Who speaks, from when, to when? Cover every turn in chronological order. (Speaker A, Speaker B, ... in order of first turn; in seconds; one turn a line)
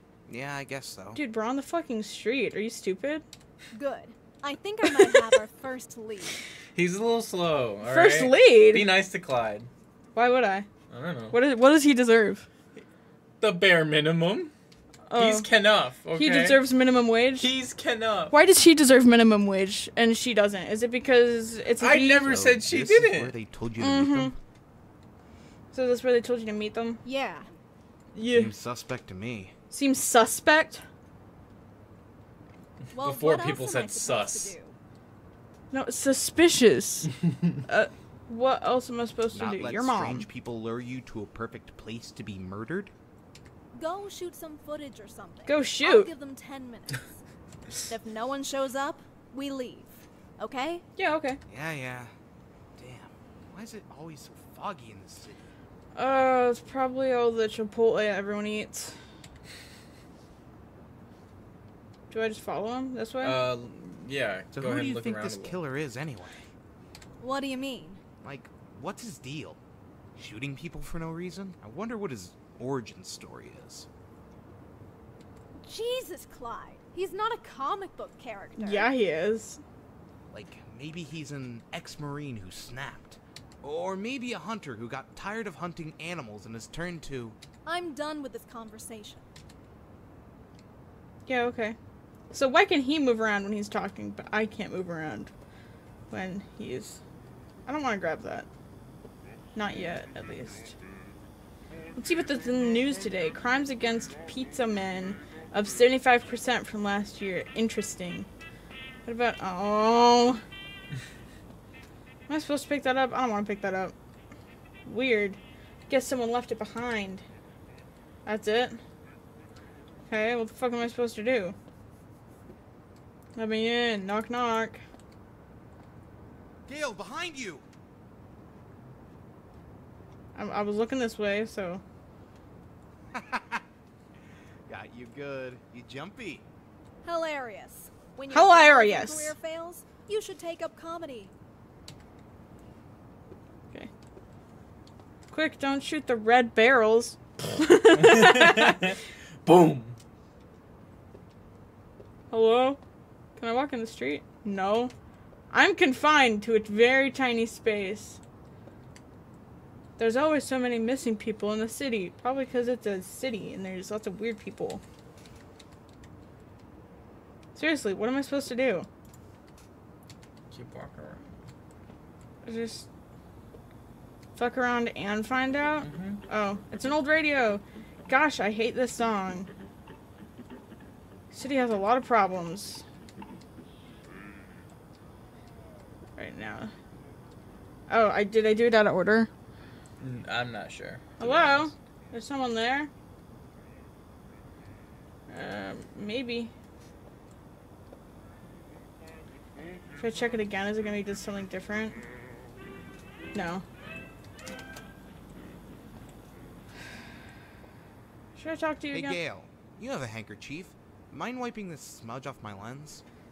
Speaker A: 0.3-1.2
Speaker B: 1.1-3.2
Speaker C: 3.7-6.3
Speaker B: 5.0-5.3
Speaker D: 6.7-9.7
Speaker B: 7.8-8.9
Speaker B: 10.1-10.7
Speaker D: 10.9-11.4
Speaker B: 11.3-12.4
Speaker D: 13.4-14.5
Speaker B: 15.1-15.5
Speaker D: 15.2-16.6
Speaker B: 16.1-17.5
Speaker D: 17.4-18.3
Speaker B: 18.3-22.3
Speaker D: 21.8-23.4
Speaker A: 22.2-24.3
Speaker B: 23.8-24.3
Speaker B: 25.7-27.0
Speaker C: 27.0-27.5
Speaker B: 28.1-28.5
Speaker A: 28.3-29.5
Speaker B: 29.7-30.8
Speaker C: 32.9-34.8
Speaker D: 33.0-34.5
Speaker B: 35.7-37.1
Speaker B: 37.6-40.2
Speaker A: 39.3-42.9
Speaker C: 43.7-47.2
Speaker B: 45.5-46.1
Speaker C: 47.9-50.8
Speaker B: 51.0-51.4
Speaker A: 51.5-52.1
Speaker A: 52.8-55.5
Speaker B: 55.9-59.0
Speaker B: 62.1-63.4
Speaker D: 63.2-65.6
Speaker A: 64.5-66.4
Speaker C: 67.2-68.0
Speaker A: 68.2-69.6
Speaker A: 70.1-73.9
Speaker C: 75.6-78.9
Speaker B: 78.6-79.6
Speaker A: 80.3-87.4
Speaker C: 87.7-89.2
Speaker B: 91.3-91.8
Speaker B: 92.3-95.3
Speaker B: 96.1-97.0
Speaker B: 97.7-98.5
Speaker B: 99.5-100.7
Speaker B: 102.0-108.3
Speaker B: 109.0-110.4
Speaker B: 112.3-113.9
Speaker B: 114.8-117.2
Speaker B: 118.2-118.8
Speaker B: 120.1-121.5
Speaker B: 123.3-124.8
Speaker A: 126.7-127.6
Speaker B: 130.3-131.8
Speaker A: 133.1-133.6
Speaker A: 134.7-136.4
Speaker C: 137.0-141.3
Speaker B: 138.3-139.3
Speaker B: 145.3-148.9
Speaker D: 147.9-150.0
Speaker B: 152.3-152.8
Speaker B: 153.4-154.9
Speaker B: 155.5-158.2
Speaker B: 160.0-164.8
Speaker B: 167.5-168.9
Speaker D: 170.5-171.2
Speaker B: 172.4-172.9
Speaker B: 174.3-179.5
Speaker D: 175.8-176.2
Speaker B: 181.3-182.8
Speaker B: 186.2-186.7
Speaker B: 187.9-189.3
Speaker D: 190.0-191.7
Speaker B: 191.2-192.9
Speaker B: 195.3-196.5
Speaker B: 200.0-202.0
Speaker B: 203.3-203.6
Speaker B: 208.3-209.2
Speaker A: 208.9-213.0